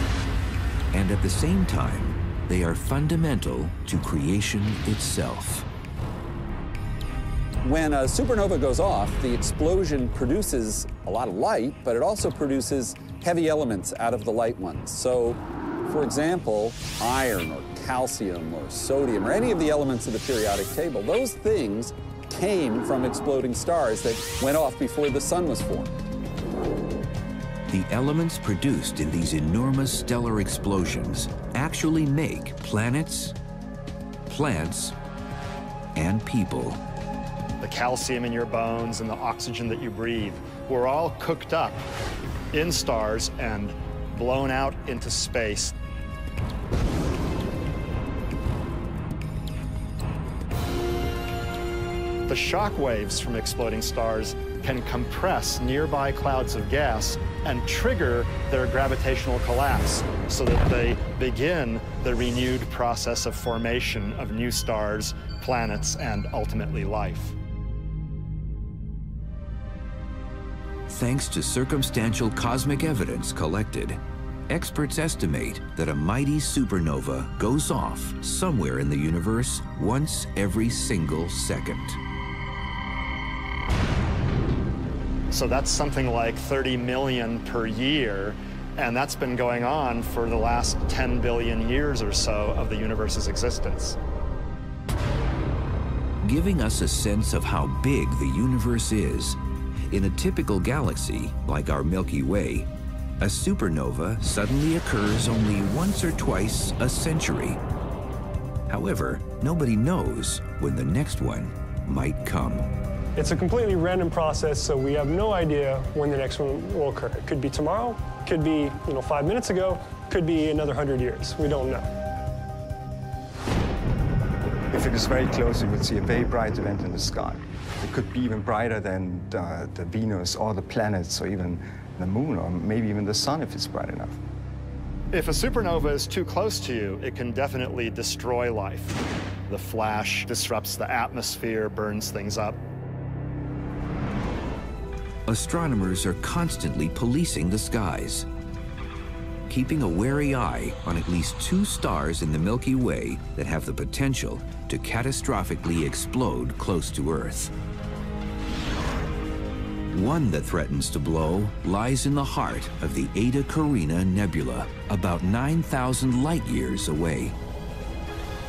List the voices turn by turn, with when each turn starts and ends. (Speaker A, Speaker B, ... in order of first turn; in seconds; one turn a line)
Speaker A: 0.9-5.7
Speaker B: 7.6-26.0
Speaker A: 27.7-33.3
Speaker A: 34.3-34.9
Speaker A: 35.9-36.8
Speaker C: 37.6-41.9
Speaker C: 42.5-45.7
Speaker C: 52.3-67.3
Speaker A: 70.9-82.0
Speaker C: 85.3-94.0
Speaker A: 96.2-99.4
Speaker A: 99.9-102.7
Speaker A: 103.2-107.6
Speaker A: 108.7-112.7
Speaker D: 113.2-121.9
Speaker E: 124.7-134.2
Speaker C: 135.1-139.0
Speaker C: 139.5-142.6
Speaker A: 145.3-148.3
Speaker A: 149.5-157.5
Speaker A: 159.9-167.3